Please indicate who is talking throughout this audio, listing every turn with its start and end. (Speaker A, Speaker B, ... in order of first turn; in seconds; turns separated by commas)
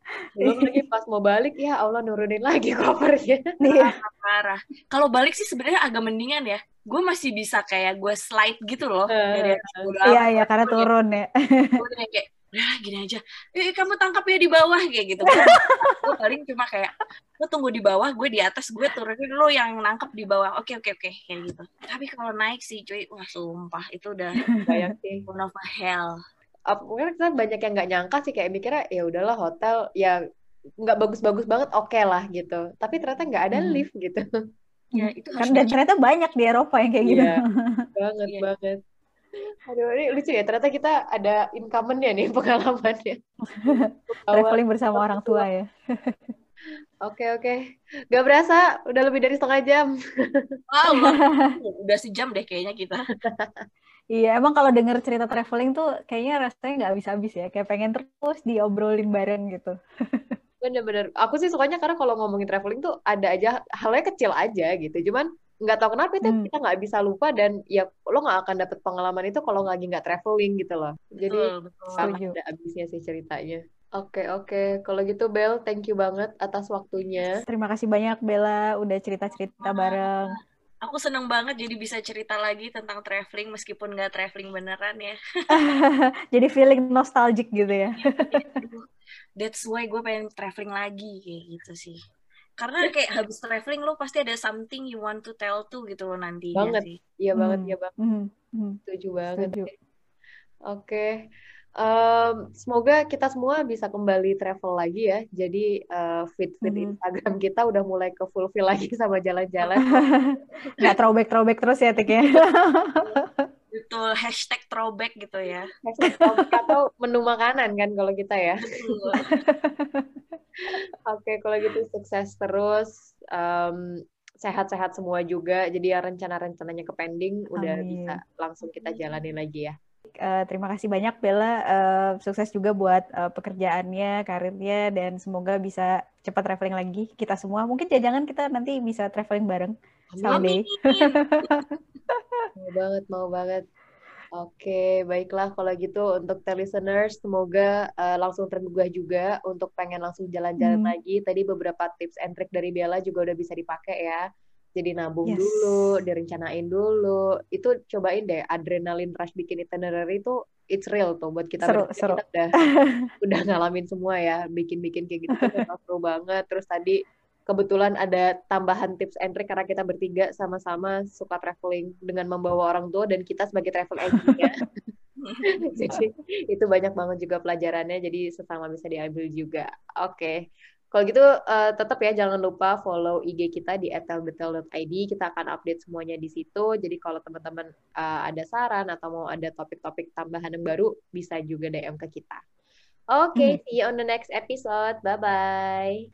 Speaker A: 0.4-3.5, Speaker B: 0.4-0.7, Speaker B: 3.6-4.0, Speaker C: 3.7-10.9, Speaker A: 9.1-9.9, Speaker B: 10.0-11.8, Speaker C: 11.8-24.4, Speaker B: 15.3-16.1, Speaker B: 24.5-24.7, Speaker A: 24.7-25.2, Speaker C: 25.3-26.1, Speaker A: 26.7-30.2, Speaker A: 30.8-34.2, Speaker B: 33.5-33.8, Speaker C: 34.9-35.8, Speaker B: 34.9-37.9, Speaker A: 37.0-37.4, Speaker A: 38.0-38.8, Speaker A: 39.6-45.4, Speaker B: 43.5-46.3, Speaker A: 47.0-47.6, Speaker A: 48.1-50.5, Speaker C: 50.7-53.0, Speaker B: 50.9-51.5, Speaker A: 53.2-53.6, Speaker B: 54.1-60.4, Speaker A: 60.6-77.4, Speaker B: 66.2-66.5, Speaker C: 71.2-72.1, Speaker B: 72.0-72.3, Speaker B: 77.3-80.3, Speaker C: 79.6-85.2, Speaker B: 85.5-88.6, Speaker C: 88.0-88.8, Speaker C: 89.4-92.0, Speaker C: 92.6-97.0, Speaker A: 96.5-97.9, Speaker B: 97.4-98.8, Speaker A: 98.9-99.7, Speaker B: 99.4-99.7, Speaker A: 100.7-101.2, Speaker A: 101.8-109.9, Speaker B: 106.6-107.0, Speaker C: 109.6-109.9, Speaker B: 109.8-113.4, Speaker C: 113.7-115.7, Speaker A: 115.8-118.6, Speaker B: 116.1-116.5, Speaker C: 118.6-119.4, Speaker B: 119.2-120.1, Speaker A: 120.7-123.9, Speaker A: 124.4-129.7, Speaker B: 127.5-128.2, Speaker B: 130.2-142.4, Speaker A: 140.1-140.5, Speaker C: 140.3-141.5, Speaker A: 142.6-143.7, Speaker A: 144.4-154.2, Speaker B: 150.6-150.9, Speaker A: 154.8-162.5, Speaker B: 155.2-155.9, Speaker B: 161.6-163.1, Speaker A: 163.2-167.0, Speaker B: 165.3-165.6, Speaker A: 167.5-174.6, Speaker B: 174.1-174.4, Speaker C: 175.2-175.4, Speaker A: 175.6-180.4, Speaker A: 180.9-192.4, Speaker A: 193.1-196.0